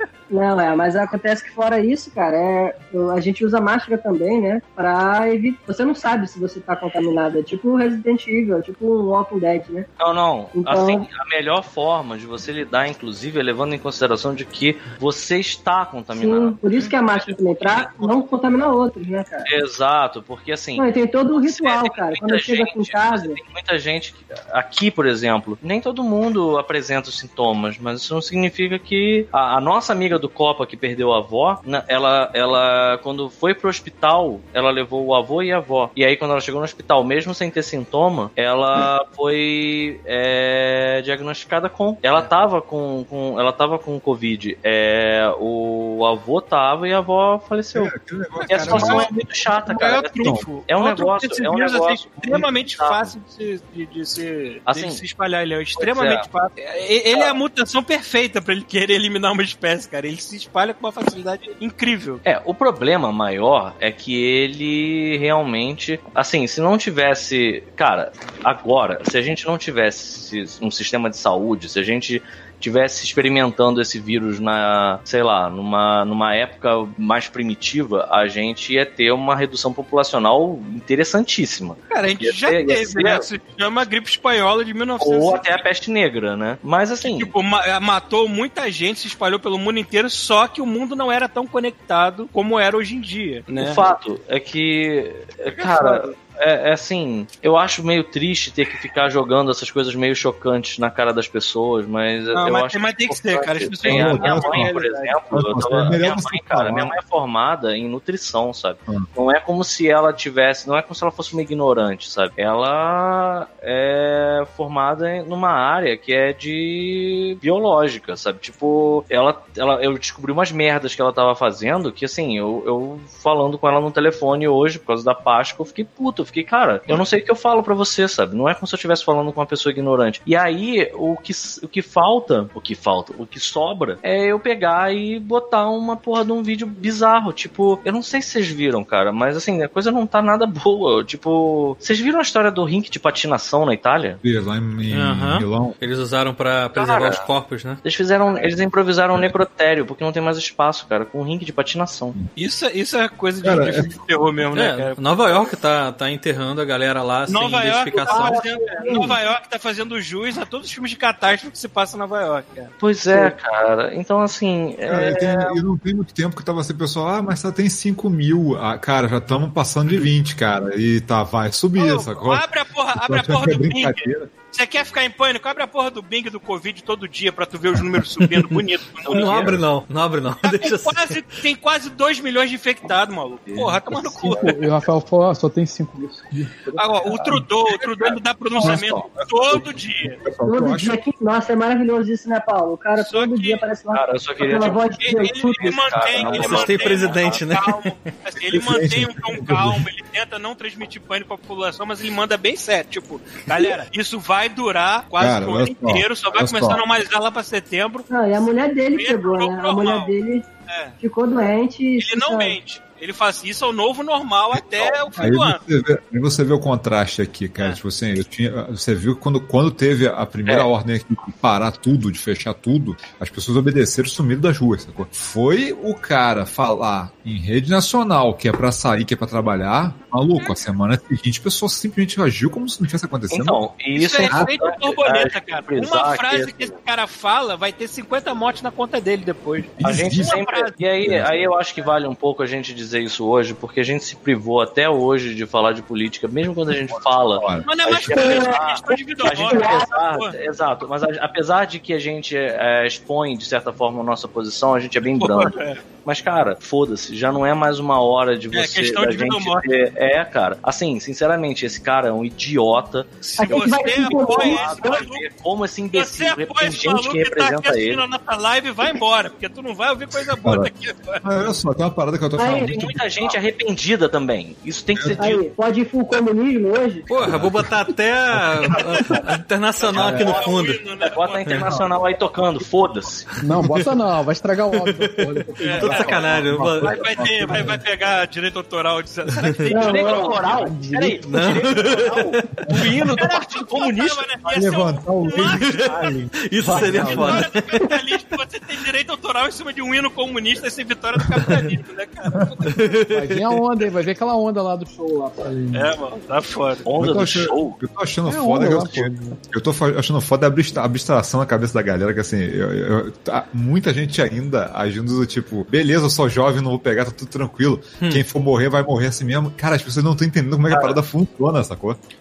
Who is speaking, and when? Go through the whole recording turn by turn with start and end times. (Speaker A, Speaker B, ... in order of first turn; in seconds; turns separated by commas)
Speaker A: 0.3-9.9, Speaker B: 10.0-18.3, Speaker A: 10.6-11.1, Speaker A: 16.2-19.5, Speaker B: 19.5-47.9, Speaker A: 20.8-23.4, Speaker C: 47.7-49.1, Speaker D: 48.4-62.2, Speaker B: 48.5-53.1, Speaker C: 49.8-50.4, Speaker B: 54.7-55.0, Speaker B: 55.8-56.3, Speaker B: 62.2-83.3, Speaker D: 81.9-85.7, Speaker B: 85.0-87.3, Speaker D: 87.0-93.9, Speaker B: 93.6-144.2, Speaker D: 95.5-96.1, Speaker D: 102.3-105.8, Speaker C: 103.8-104.8, Speaker C: 105.3-106.9, Speaker C: 144.2-145.8, Speaker E: 144.9-147.8, Speaker B: 146.8-147.2, Speaker B: 147.8-152.2, Speaker D: 152.4-155.3, Speaker C: 153.4-153.9, Speaker E: 154.5-158.4, Speaker D: 157.3-162.7, Speaker A: 158.1-159.1, Speaker B: 162.8-165.5, Speaker C: 164.9-174.3, Speaker D: 171.8-179.6, Speaker B: 179.1-179.6, Speaker E: 179.1-181.2, Speaker D: 180.4-184.6, Speaker F: 183.9-187.5, Speaker D: 186.8-190.2, Speaker C: 187.8-191.0, Speaker A: 190.4-195.8, Speaker D: 193.0-193.6, Speaker B: 193.9-194.9, Speaker D: 194.5-208.1, Speaker B: 195.5-197.4, Speaker E: 196.3-197.9, Speaker C: 198.5-199.8, Speaker C: 205.2-206.8, Speaker A: 208.1-210.5, Speaker D: 209.0-210.1, Speaker D: 210.7-210.9, Speaker A: 211.0-212.6, Speaker D: 212.0-215.6, Speaker C: 215.2-233.7, Speaker B: 233.3-236.8, Speaker D: 233.9-240.7, Speaker C: 234.3-234.5, Speaker C: 239.8-241.4, Speaker B: 239.8-268.0, Speaker C: 246.7-247.7, Speaker D: 247.6-250.4, Speaker A: 248.2-248.5, Speaker A: 249.3-249.9, Speaker D: 255.2-255.8, Speaker D: 258.5-259.7, Speaker D: 263.2-265.3, Speaker A: 263.4-265.0, Speaker D: 265.9-271.2, Speaker C: 270.4-270.7, Speaker C: 271.2-273.0, Speaker A: 272.4-272.8, Speaker B: 272.5-275.4, Speaker C: 274.9-275.2, Speaker A: 275.2-277.1, Speaker E: 277.1-280.9, Speaker C: 277.2-277.7, Speaker C: 278.3-279.2, Speaker D: 279.8-281.8, Speaker F: 280.0-280.4, Speaker B: 281.0-283.3, Speaker F: 283.4-286.8, Speaker E: 284.8-285.2, Speaker D: 285.6-290.5, Speaker E: 285.8-287.0, Speaker C: 286.0-287.8, Speaker B: 289.7-294.3, Speaker A: 289.7-290.7, Speaker F: 290.5-291.2, Speaker E: 291.2-292.6, Speaker D: 291.3-295.9, Speaker C: 294.5-297.1, Speaker E: 295.6-298.2, Speaker B: 296.6-297.4, Speaker D: 296.8-302.9, Speaker E: 302.7-303.6, Speaker F: 303.1-305.9, Speaker D: 305.7-306.9, Speaker B: 306.9-307.8, Speaker C: 306.9-322.0, Speaker F: 308.3-309.4, Speaker B: 320.7-321.0